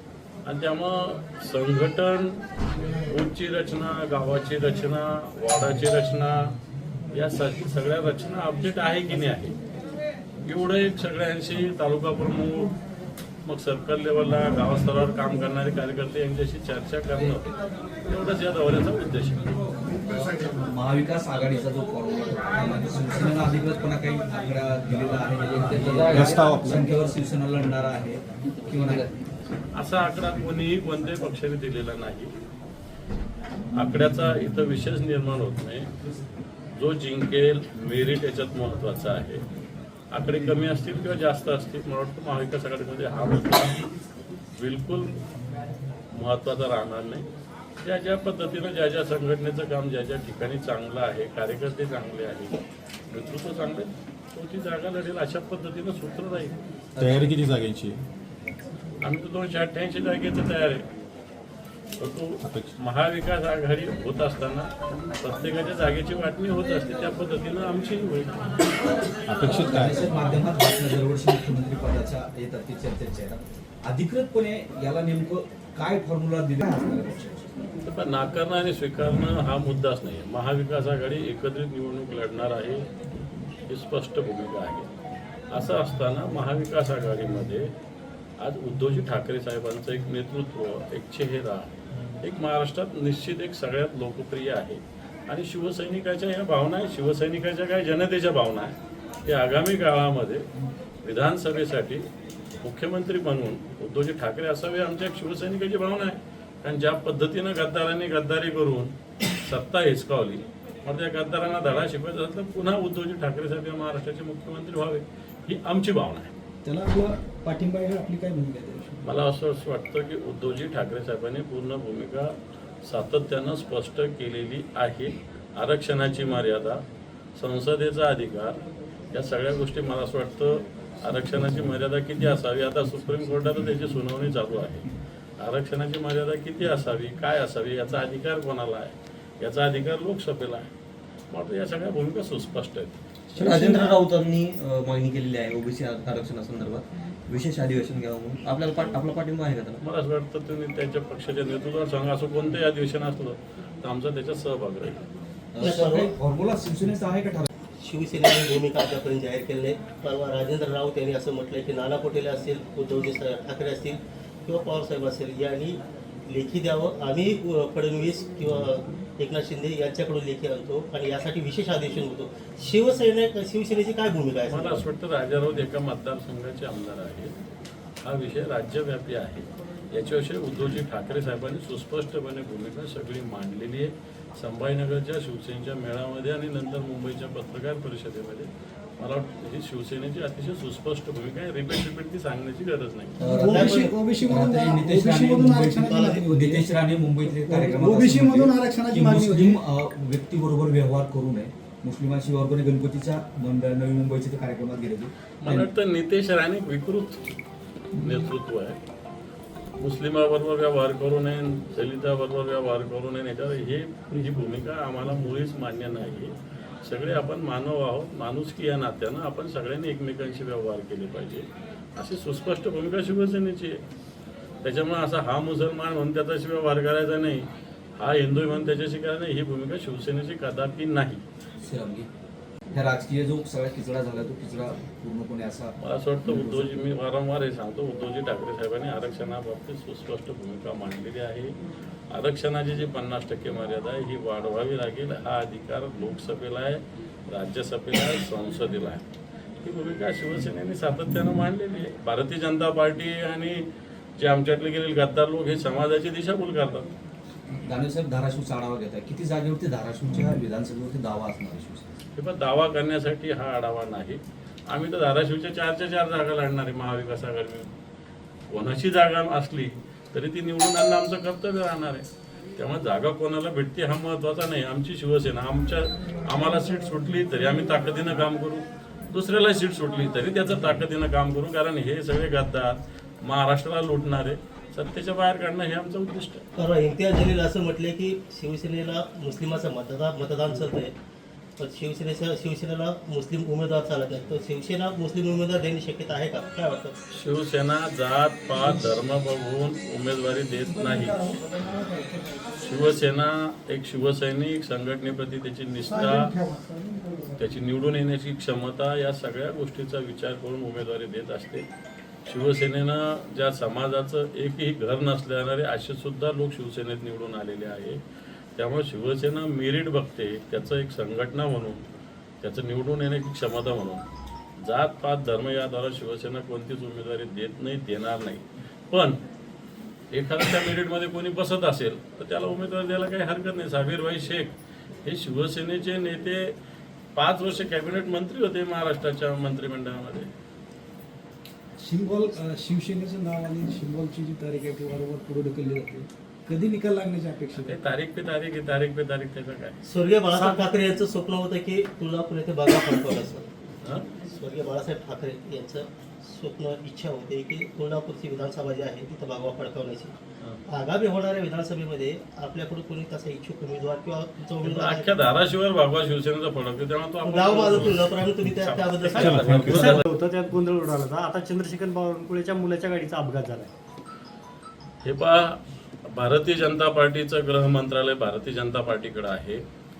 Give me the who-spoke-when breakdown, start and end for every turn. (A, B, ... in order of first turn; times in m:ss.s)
0:00.4-0:02.4 A
0:03.1-0:06.5 A
0:07.1-0:09.6 A
0:10.4-0:12.8 A
0:13.4-0:17.5 A
0:18.0-0:19.5 A
0:20.6-0:29.1 B
0:25.4-0:26.4 C
0:26.1-0:26.8 D
0:28.7-0:29.1 C
0:29.7-0:32.3 A
0:33.7-0:35.9 A
0:36.8-0:39.4 A
0:40.1-0:43.8 A
0:44.6-0:45.2 A
0:46.1-0:47.2 A
0:47.8-0:52.6 A
0:53.1-0:56.6 A
0:57.0-0:58.0 D
0:59.0-1:00.8 A
1:02.0-1:08.4 A
1:02.4-1:02.7 D
1:09.3-1:10.0 D
1:09.5-1:17.5 B
1:17.8-1:22.9 A
1:23.7-1:24.9 A
1:25.5-1:27.7 A
1:28.4-1:40.5 A
1:41.0-1:42.1 A
1:42.6-1:56.3 A
1:56.6-1:59.0 E
1:59.0-2:02.3 A
2:02.8-2:06.8 A
2:07.4-2:08.6 A
2:09.1-2:14.9 A
2:15.4-2:20.7 A
2:21.3-2:22.9 A
2:23.3-2:29.8 C
2:23.4-2:24.0 E
2:29.8-2:35.0 A
2:35.5-2:37.5 B
2:35.6-2:36.1 F
2:37.8-2:54.8 F
2:54.5-2:57.3 A
2:58.0-3:13.8 A
3:13.2-3:16.7 E
3:13.2-3:25.7 B
3:13.5-3:13.9 F
3:15.8-3:16.2 F
3:17.2-3:19.6 E
3:25.4-3:27.4 A
3:28.0-3:28.8 A
3:29.8-3:43.8 A
3:44.6-3:47.5 A
3:48.0-3:51.2 A
3:51.6-3:52.1 B
3:52.7-3:56.7 B
3:55.8-4:01.5 A
4:02.1-4:09.0 A
4:09.6-4:13.6 A
4:14.2-4:16.9 A
4:17.6-4:21.9 B
4:22.2-4:27.7 A
4:28.5-4:46.4 A
4:46.6-4:50.9 F
4:51.6-4:56.9 F
4:57.1-5:01.2 A
5:00.7-5:02.4 E
5:02.6-5:06.3 A
5:05.8-5:07.3 E
5:07.4-5:11.6 A
5:12.3-5:18.0 A
5:18.6-5:21.8 A
5:22.4-5:24.0 A
5:24.6-5:29.2 A
5:30.1-5:34.5 A
5:35.0-5:36.5 A
5:37.2-5:40.3 A
5:41.8-5:47.7 E
5:47.5-5:49.8 A
5:49.8-5:53.5 F
5:54.2-6:00.2 F
6:00.7-6:05.2 F
6:04.6-6:10.0 A
6:07.2-6:10.1 F
6:09.1-6:13.7 G
6:09.2-6:09.8 D
6:15.0-6:19.6 A